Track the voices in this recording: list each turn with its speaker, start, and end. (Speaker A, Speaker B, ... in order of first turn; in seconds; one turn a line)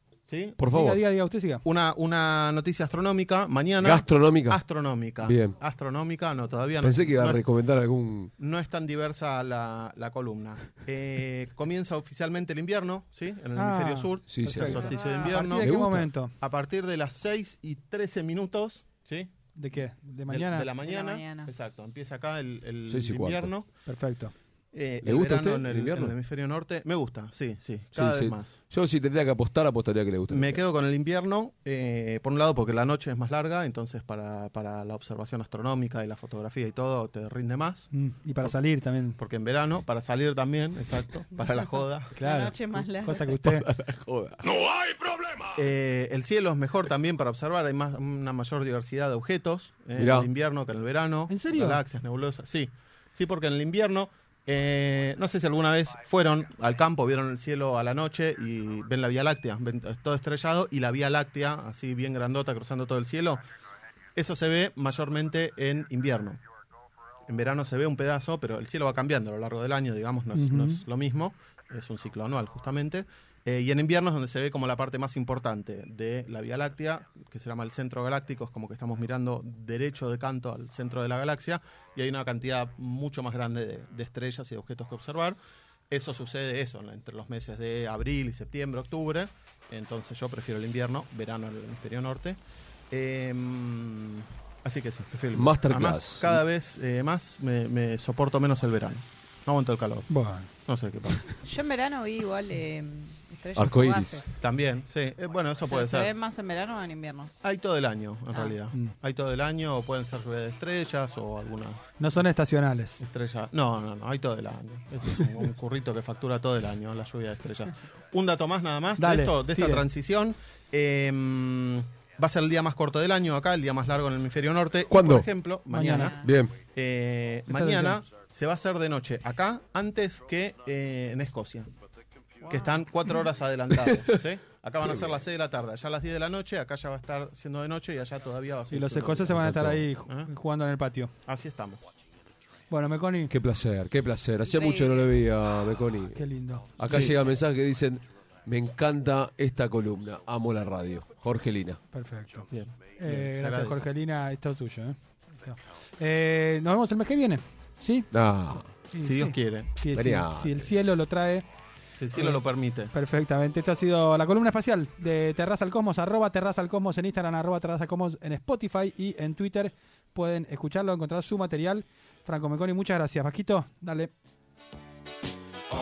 Speaker A: 0.3-0.6
Speaker B: 0.6-1.0
Speaker C: 0.7-1.6
Speaker A: 1.6-7.4
Speaker B: 3.8-4.6
Speaker B: 5.2-5.6
Speaker B: 6.8-8.3
Speaker A: 8.4-15.7
Speaker C: 13.6-16.3
Speaker B: 14.3-14.9
Speaker D: 14.6-15.4
Speaker B: 15.6-16.1
Speaker A: 16.4-19.3
Speaker C: 19.6-20.7
Speaker A: 20.3-23.7
Speaker D: 20.8-21.5
Speaker B: 22.9-23.5
Speaker C: 23.9-24.3
Speaker A: 24.7-28.6
Speaker B: 25.0-26.1
Speaker B: 27.9-30.6
Speaker A: 30.3-38.6
Speaker C: 37.9-39.2
Speaker A: 39.2-42.2
Speaker C: 42.2-43.7
Speaker D: 42.2-43.3
Speaker B: 43.4-44.8
Speaker A: 45.5-63.5
Speaker B: 50.0-50.3
Speaker C: 51.3-51.8
Speaker A: 64.2-66.4
Speaker A: 67.3-85.4
Speaker C: 70.3-70.8
Speaker A: 85.9-92.4
Speaker A: 92.9-100.1
Speaker B: 95.3-96.4
Speaker C: 100.1-100.5
Speaker A: 100.7-101.2
Speaker D: 101.4-104.2
Speaker B: 103.5-104.2
Speaker A: 104.4-106.1
Speaker D: 105.7-107.3
Speaker A: 107.4-111.8
Speaker C: 112.0-113.0
Speaker A: 113.0-131.7
Speaker C: 119.0-119.9
Speaker B: 124.9-125.3
Speaker C: 125.7-126.1
Speaker D: 125.9-126.3
Speaker B: 126.2-126.5
Speaker C: 127.5-128.0
Speaker D: 132.4-132.8
Speaker A: 132.5-139.5
Speaker B: 134.8-135.2
Speaker C: 138.7-141.1
Speaker B: 139.3-139.9
Speaker A: 141.3-141.8
Speaker C: 142.7-143.3
Speaker B: 143.3-146.2
Speaker D: 144.4-145.1
Speaker C: 146.1-147.2
Speaker B: 146.8-151.8
Speaker C: 151.9-158.1
Speaker A: 152.5-153.9
Speaker B: 158.1-158.7
Speaker C: 158.9-161.5
Speaker A: 159.0-159.7
Speaker B: 159.9-160.7
Speaker A: 162.0-162.9
Speaker C: 162.1-174.1